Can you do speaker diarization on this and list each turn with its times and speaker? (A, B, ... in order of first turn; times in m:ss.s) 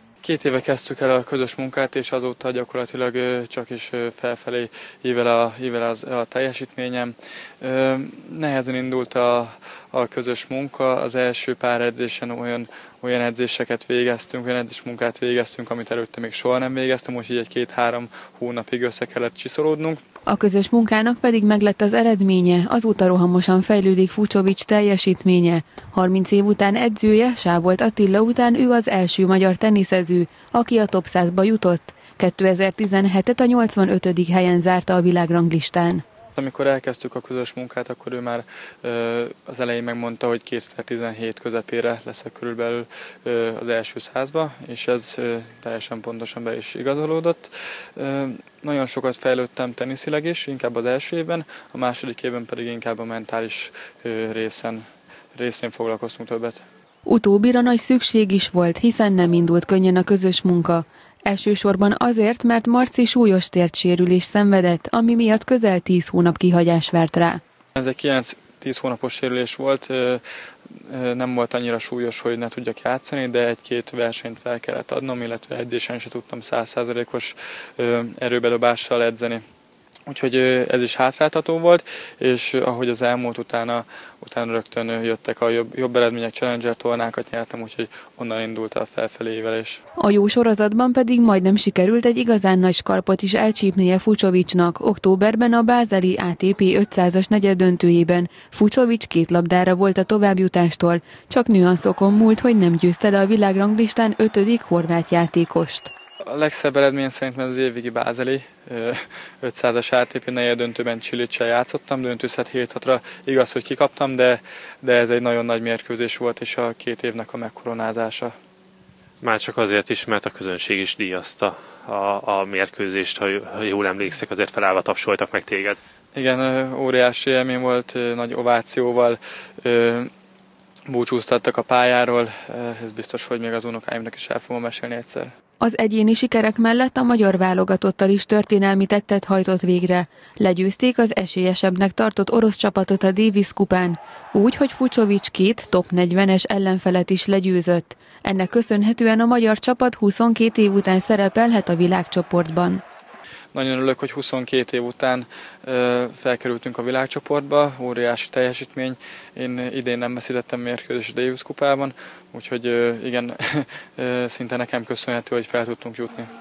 0:00.2-0:20.0 A
0:20.2-0:36.0 B
0:36.4-0:54.8 A
0:55.3-0:56.6 A
0:57.0-1:07.4 B
1:07.8-1:10.2 A
1:10.8-1:19.4 A
1:20.1-1:29.8 A
1:30.0-1:45.9 B
1:46.3-1:58.3 A
1:59.2-2:05.8 C
2:06.1-2:10.1 A
2:10.9-2:15.3 A
2:15.6-2:32.8 B
2:33.5-2:46.3 A